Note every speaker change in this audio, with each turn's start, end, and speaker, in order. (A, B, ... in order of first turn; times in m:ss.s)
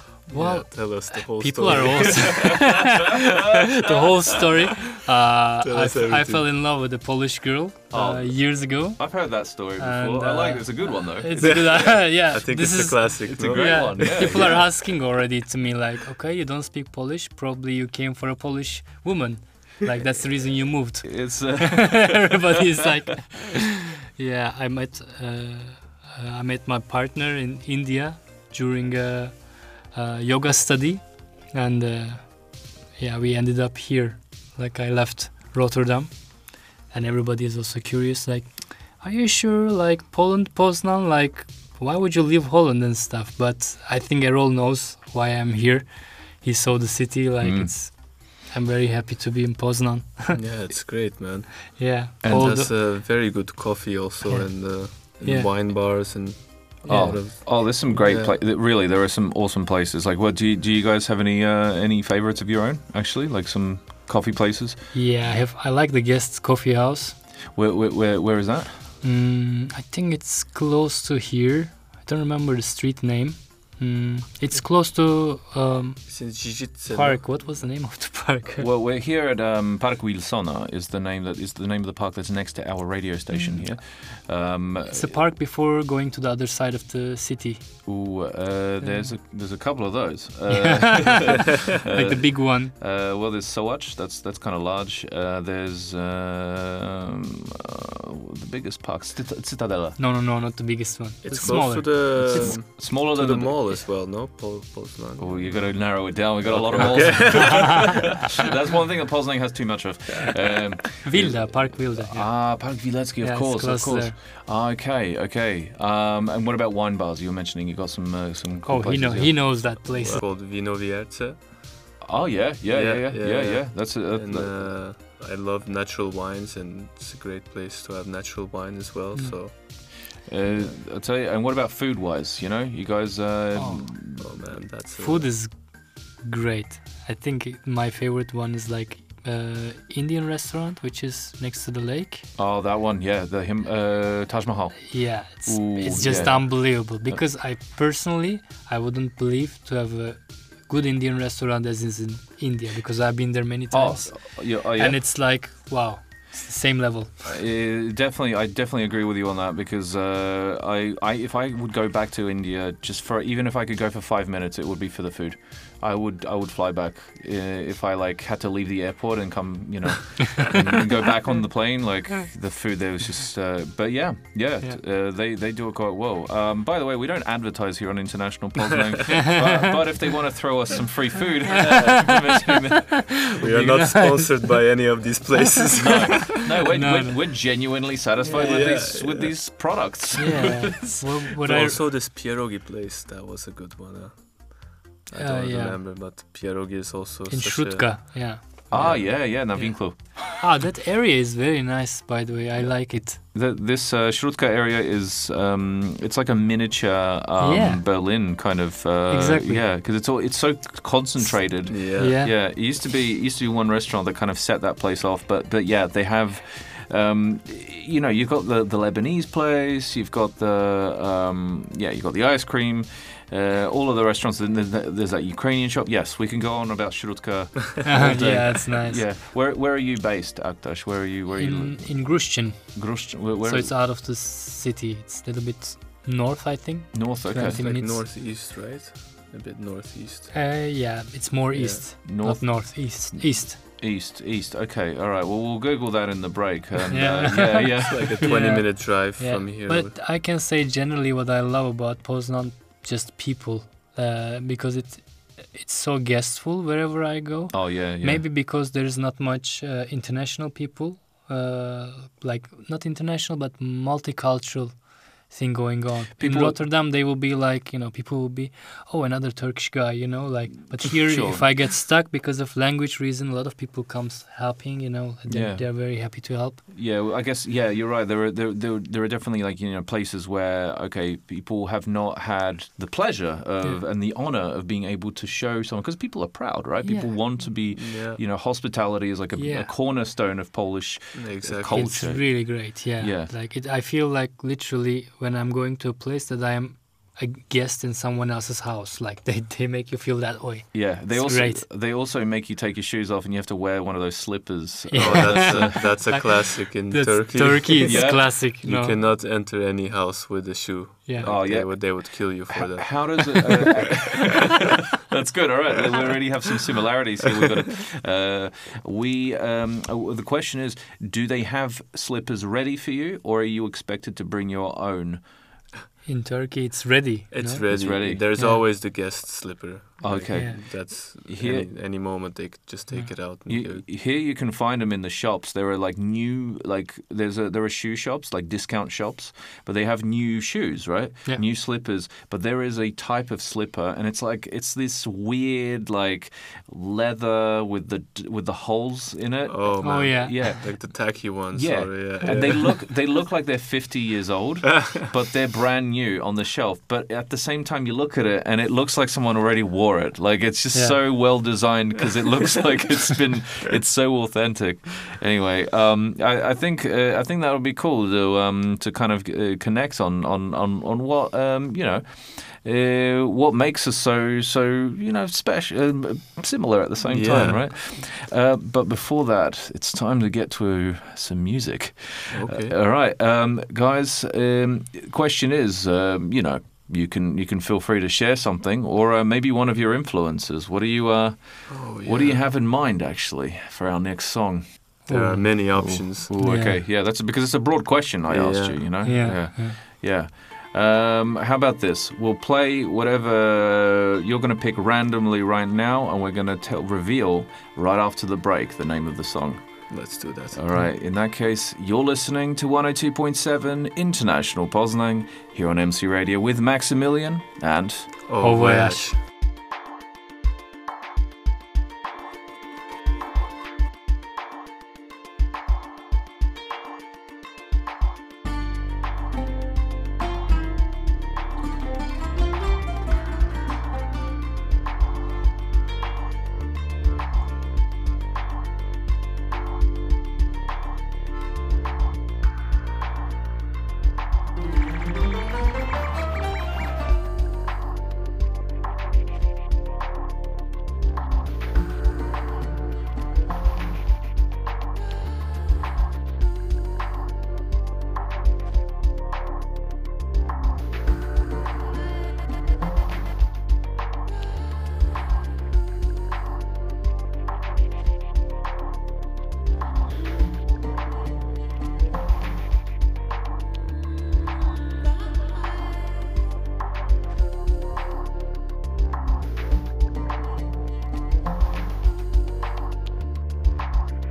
0:00.3-0:02.8 A
0:00.3-0:50.8 B
0:01.9-0:04.3 C
0:05.6-0:06.4 A
0:07.9-0:11.8 C
0:11.4-0:14.8 A
0:13.3-0:14.7 C
0:21.0-0:22.4 C
0:47.4-0:47.7 C
0:50.3-0:58.4 A
0:51.8-0:52.7 B
0:52.2-0:52.6 C
0:54.2-0:55.5 B
0:56.9-1:04.8 C
1:04.9-1:07.2 B
1:07.5-1:08.8 C
1:09.0-1:18.7 B
1:16.1-1:17.5 A
1:18.5-1:25.2 C
1:23.3-1:23.8 B
1:24.8-1:28.1 B
1:27.9-1:40.0 C
1:28.8-1:29.2 B
1:30.5-1:32.7 B
1:40.0-1:42.6 B
1:41.2-1:48.3 A
1:41.3-1:43.8 C
1:45.2-1:59.6 C
1:46.8-1:48.1 B
1:51.0-1:54.2 B
1:58.6-2:00.2 B
1:59.5-2:02.0 A
2:02.0-2:04.8 C
2:02.7-2:09.6 A
2:09.6-2:14.3 C
2:13.6-2:14.2 B
2:14.1-2:15.3 A
2:15.0-2:22.3 B
2:22.4-2:27.2 C
2:24.9-2:37.3 B
2:33.7-2:35.0 C
2:37.2-3:04.0 C
3:01.6-3:02.2 A
3:03.2-3:06.4 A
3:03.3-3:04.4 B
3:05.8-3:11.0 C
3:06.2-3:07.3 B
3:08.2-3:09.6 A
3:10.2-3:11.8 B
3:11.4-3:19.2 A
3:15.2-3:15.8 B
3:17.3-3:23.2 B
3:18.7-3:20.6 C
3:22.6-3:53.8 C
3:27.4-3:28.4 B
3:29.1-3:29.7 B
3:31.3-3:32.3 B
3:31.6-3:32.2 A
3:47.8-3:49.1 B
3:51.3-3:58.1 B
3:56.9-3:57.6 C
3:57.5-4:00.3 A
4:00.3-4:03.6 B
4:01.5-4:01.8 A
4:02.0-4:08.4 C
4:06.9-4:36.6 B
4:07.8-4:09.9 A
4:17.5-4:18.2 C
4:26.2-4:26.6 C
4:30.9-4:31.7 C
4:35.2-4:53.3 C
4:46.8-4:47.5 B
4:47.6-4:48.2 A
4:49.3-4:49.7 B
4:51.1-4:52.0 A
4:51.7-5:01.7 B
5:00.7-5:05.8 C
5:04.9-5:09.0 B
5:05.0-5:14.8 A
5:07.8-5:08.5 C
5:11.1-5:11.3 B
5:11.2-5:25.4 C
5:26.0-5:28.6 B
5:27.3-5:33.9 A
5:27.7-5:28.2 C
5:30.0-5:31.7 C
5:30.3-5:30.6 B
5:33.5-6:35.0 C
5:49.5-5:53.0 A
5:49.8-5:50.5 B
6:00.7-6:01.0 B
6:17.0-6:17.9 A
6:22.3-6:22.8 A
6:31.7-6:32.4 A
6:35.1-6:35.9 B
6:35.1-6:36.3 A
6:35.7-6:58.2 C
6:36.4-6:36.8 B
6:38.3-6:39.0 A
6:39.0-6:39.8 B
6:49.9-6:50.7 A
6:58.3-6:59.2 A
6:58.4-6:59.1 B